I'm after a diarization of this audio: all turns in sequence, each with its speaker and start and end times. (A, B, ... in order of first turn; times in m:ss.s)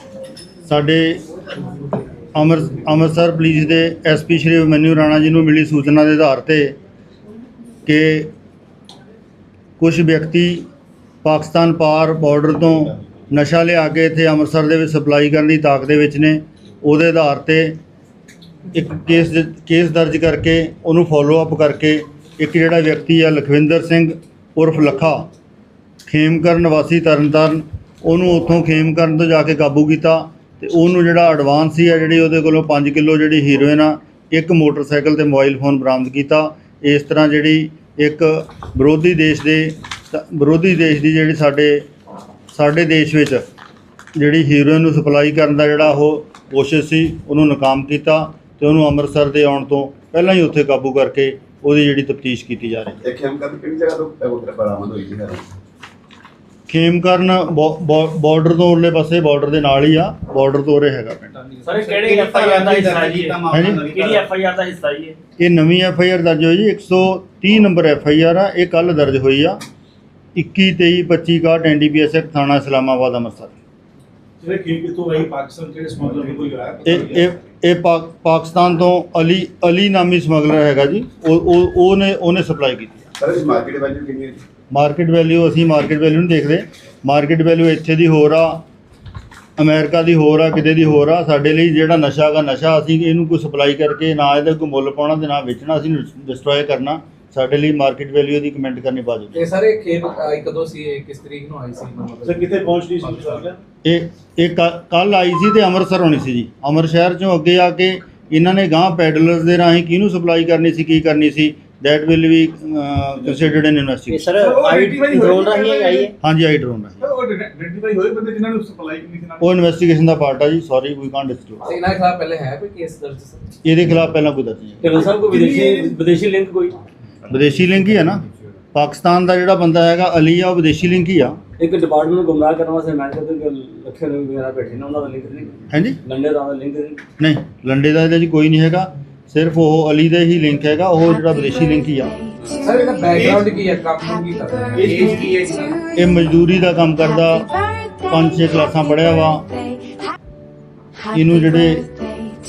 0:00.6-0:01.2 A
0:02.3-0:06.7 A
0:07.8-0:08.3 A
0:09.8-0:10.6 A
0:11.2-0:17.8 A
0:18.7-0:25.3 A
0:26.0-0:41.8 A
0:42.5-0:43.4 A
0:44.1-0:53.0 A
0:53.0-0:55.5 B
0:56.7-1:01.4 A
1:01.6-1:05.2 C
1:01.9-1:04.3 B
1:03.5-1:03.8 A
1:05.4-1:09.6 A
1:10.3-1:13.5 A
1:14.4-1:17.3 D
1:16.8-1:23.1 A
1:23.2-1:24.4 B
1:24.7-1:28.6 A
1:29.6-1:39.4 A
1:39.3-1:43.4 E
1:42.2-1:43.6 D
1:43.8-1:54.2 A
1:54.1-1:56.1 C
1:54.4-1:56.1 D
1:56.2-1:57.0 A
1:57.0-1:59.4 D
1:59.4-2:01.6 A
2:01.6-2:03.5 E
2:03.6-2:04.9 A
2:04.8-2:06.7 C
2:05.3-2:06.0 D
2:07.3-2:11.4 A
2:11.6-2:17.0 C
2:15.7-2:16.0 A
2:17.2-2:22.2 A
2:22.6-2:25.8 E
2:23.1-2:23.5 D
2:24.7-2:25.4 D
2:26.0-2:27.5 A
2:28.1-2:29.5 A
2:31.1-2:31.9 A